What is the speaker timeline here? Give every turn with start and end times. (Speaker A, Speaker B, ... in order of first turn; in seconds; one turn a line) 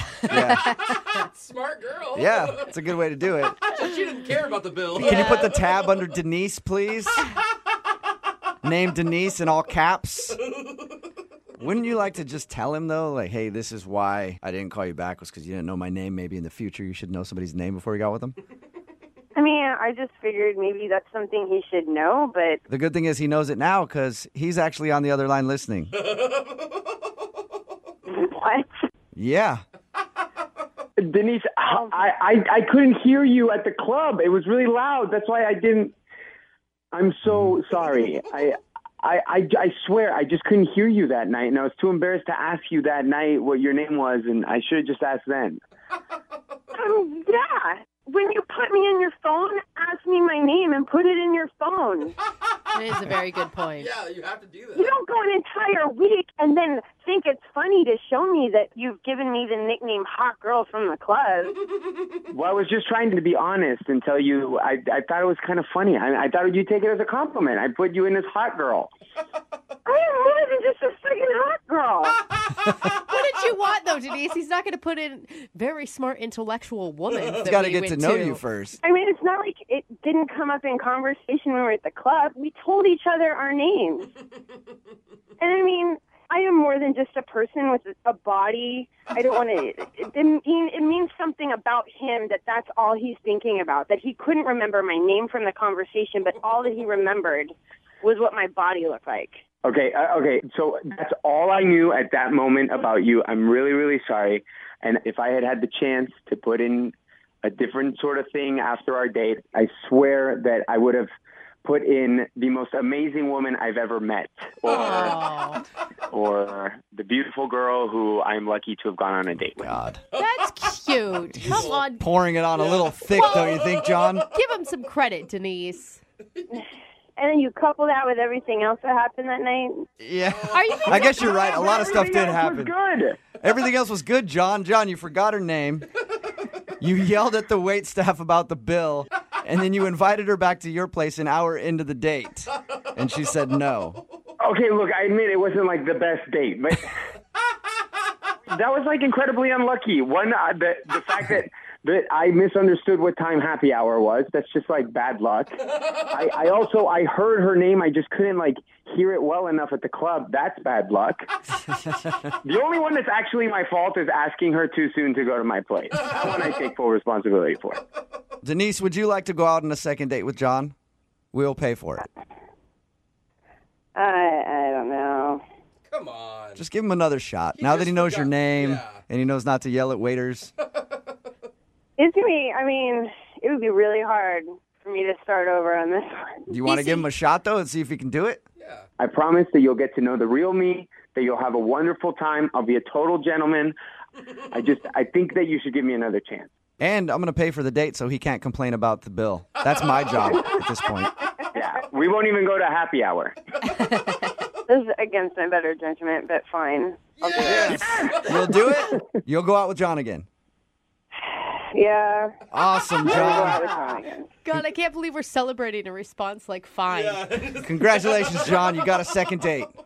Speaker A: 0.2-1.0
Speaker B: 0.3-0.7
Speaker C: 0.8-2.8
Speaker B: 2.1-3.6
Speaker C: 3.6-5.8
Speaker B: 4.9-7.2
Speaker A: 5.0-5.4
Speaker B: 8.6-10.4
Speaker B: 11.6-18.4
Speaker D: 19.4-22.6
Speaker B: 22.7-25.9
Speaker D: 28.1-28.9
Speaker B: 29.1-29.6
Speaker E: 31.0-35.9
Speaker D: 31.7-32.1
Speaker E: 36.9-45.6
Speaker D: 46.7-52.2
Speaker A: 52.7-53.9
Speaker C: 53.8-54.9
Speaker D: 54.7-61.6
Speaker E: 62.3-68.9
Speaker D: 69.9-72.2
Speaker A: 73.0-78.4
Speaker B: 77.4-78.8
Speaker D: 78.8-84.1
Speaker D: 85.4-99.4
Speaker E: 99.6-111.1
Speaker E: 111.6-115.2
Speaker A: 114.7-115.6
Speaker E: 116.1-119.6
Speaker B: 119.6-120.0
Speaker A: 120.1-122.1
Speaker B: 121.3-124.3
Speaker C: 121.3-121.8
Speaker C: 122.5-124.2
Speaker A: 123.1-123.7
Speaker A: 124.3-126.0
Speaker D: 126.5-129.9
Speaker B: 130.0-132.7
Speaker C: 130.4-131.2
Speaker A: 130.5-132.1
Speaker E: 131.4-133.2
Speaker B: 133.4-135.9
Speaker B: 136.8-144.0
Speaker E: 144.4-146.9
Speaker E: 148.5-161.3
Speaker E: 162.4-167.8
Speaker B: 168.4-170.8
Speaker B: 171.3-172.1
Speaker D: 173.9-175.4
Speaker C: 175.9-176.6
Speaker B: 176.6-180.5
Speaker C: 177.6-179.0
Speaker C: 180.6-181.0
Speaker D: 182.0-187.1
Speaker B: 186.5-188.4
Speaker C: 188.6-188.9
Speaker E: 189.0-193.8
Speaker E: 194.5-196.5
Speaker B: 196.8-201.1
Speaker E: 201.5-203.8
Speaker D: 204.7-207.6
Speaker C: 207.2-208.5
Speaker B: 207.5-210.3
Speaker E: 207.5-208.1
Speaker D: 211.2-212.4
Speaker B: 212.5-213.6
Speaker D: 213.1-214.3
Speaker E: 213.1-213.9
Speaker A: 214.4-217.2
Speaker C: 216.9-218.8
Speaker B: 217.6-219.7